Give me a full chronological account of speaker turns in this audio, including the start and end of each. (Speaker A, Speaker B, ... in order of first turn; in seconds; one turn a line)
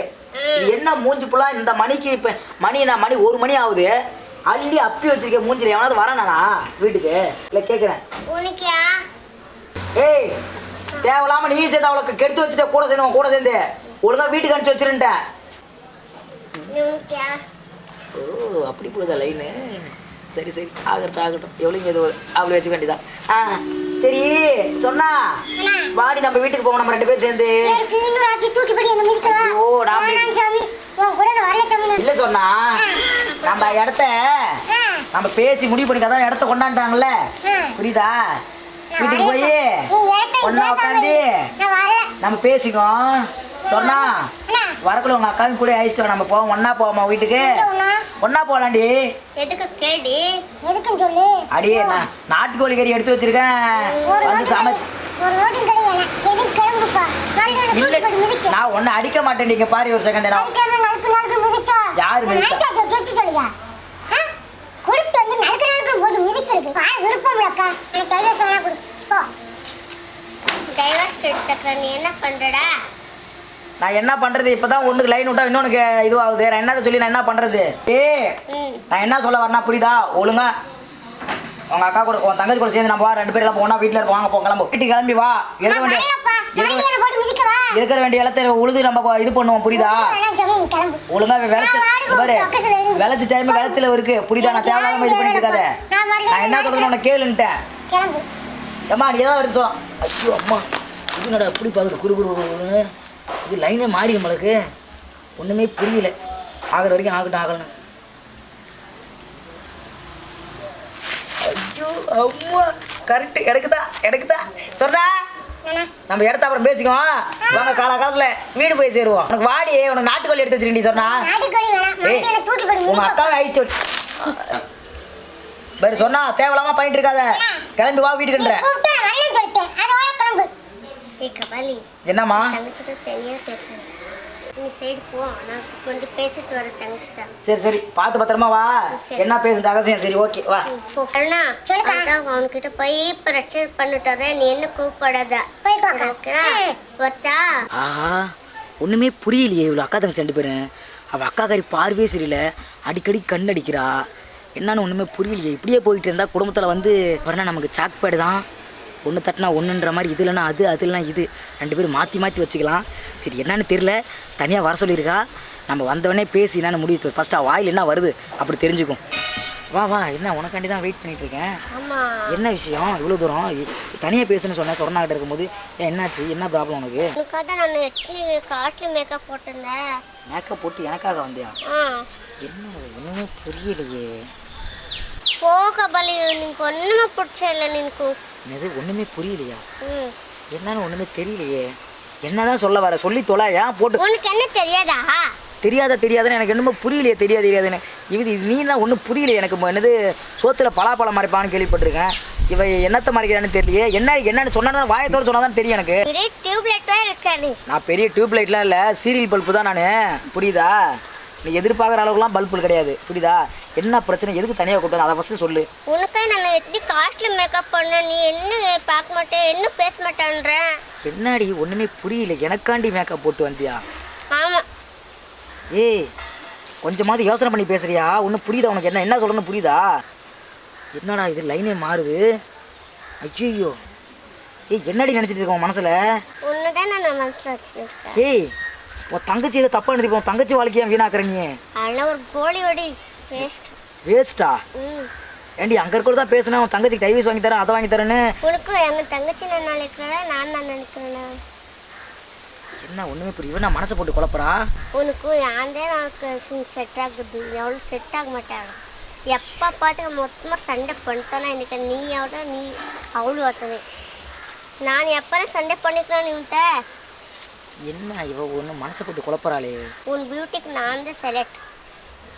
Speaker A: 0.3-0.7
Speaker B: 0.6-3.9
Speaker B: 4.5-8.0
Speaker A: 8.3-8.9
Speaker B: 10.0-10.3
Speaker B: 11.0-15.1
Speaker A: 16.7-17.4
Speaker B: 18.1-25.1
Speaker C: 25.6-25.9
Speaker B: 25.9-27.8
Speaker C: 27.6-32.1
Speaker B: 29.2-30.3
Speaker B: 32.0-32.8
Speaker C: 32.8-33.0
Speaker A: 33.3-33.7
Speaker B: 33.4-34.6
Speaker C: 34.7-35.0
Speaker B: 35.1-37.1
Speaker C: 37.4-37.8
Speaker B: 37.8-38.2
Speaker C: 38.9-42.1
Speaker B: 39.0-39.7
Speaker B: 40.4-41.3
Speaker B: 42.2-43.1
Speaker C: 43.6-44.8
Speaker B: 43.7-44.2
Speaker B: 44.8-47.5
Speaker C: 47.4-48.0
Speaker B: 48.2-48.9
Speaker A: 49.4-50.3
Speaker C: 50.6-52.0
Speaker B: 51.5-54.8
Speaker A: 53.8-54.2
Speaker C: 54.0-58.6
Speaker B: 57.5-60.5
Speaker C: 60.3-63.5
Speaker B: 62.0-62.6
Speaker C: 64.8-69.2
Speaker A: 70.7-72.7
Speaker B: 73.8-78.3
Speaker A: 78.5-78.8
Speaker B: 78.9-80.5
Speaker B: 81.7-86.9
Speaker C: 85.7-87.8
Speaker B: 87.7-90.2
Speaker C: 89.7-91.0
Speaker B: 91.1-95.7
Speaker C: 91.5-93.8
Speaker C: 94.4-96.9
Speaker B: 96.3-97.5
Speaker C: 97.9-98.2
Speaker B: 98.9-100.6
Speaker B: 101.2-102.8
Speaker B: 103.5-104.5
Speaker B: 105.4-106.1
Speaker B: 106.7-107.7
Speaker B: 111.5-115.1
Speaker C: 115.6-115.9
Speaker B: 116.1-121.3
Speaker C: 117.4-117.8
Speaker C: 120.9-123.4
Speaker B: 122.0-122.3
Speaker B: 122.8-124.6
Speaker B: 125.8-128.6
Speaker C: 127.3-127.7
Speaker C: 128.3-130.5
Speaker A: 131.2-133.9
Speaker B: 132.1-132.5
Speaker A: 134.6-137.3
Speaker B: 137.4-140.7
Speaker A: 138.9-139.3
Speaker A: 140.7-147.4
Speaker C: 141.7-142.1
Speaker C: 145.6-146.8
Speaker B: 147.7-148.2
Speaker B: 148.8-150.6
Speaker B: 151.1-154.0
Speaker B: 154.6-158.4
Speaker B: 159.0-169.0
Speaker B: 169.7-171.5
Speaker A: 171.7-172.3
Speaker B: 172.3-177.1
Speaker A: 177.2-179.8
Speaker B: 180.3-181.5
Speaker A: 181.7-182.0
Speaker B: 182.4-184.1
Speaker A: 185.4-188.2
Speaker B: 188.5-189.6
Speaker A: 189.8-190.1
Speaker B: 190.5-191.6
Speaker B: 192.2-194.0
Speaker A: 194.0-195.3
Speaker B: 195.6-206.0
Speaker A: 206.1-207.6
Speaker B: 207.7-210.7
Speaker B: 211.4-215.7
Speaker A: 215.9-220.8
Speaker B: 221.0-223.8
Speaker A: 224.3-224.6
Speaker B: 225.7-226.1
Speaker B: 226.8-229.8
Speaker B: 230.9-232.2
Speaker B: 233.2-233.8
Speaker B: 234.7-236.0
Speaker A: 236.4-238.2
Speaker B: 238.2-238.5
Speaker B: 239.1-241.5
Speaker A: 241.8-243.7
Speaker B: 244.1-244.6
Speaker A: 244.8-245.1
Speaker B: 245.6-248.2
Speaker A: 248.4-251.3
Speaker B: 252.8-254.6
Speaker A: 254.9-258.8
Speaker A: 259.3-263.8
Speaker A: 264.9-266.6
Speaker B: 267.9-269.8
Speaker A: 270.1-271.6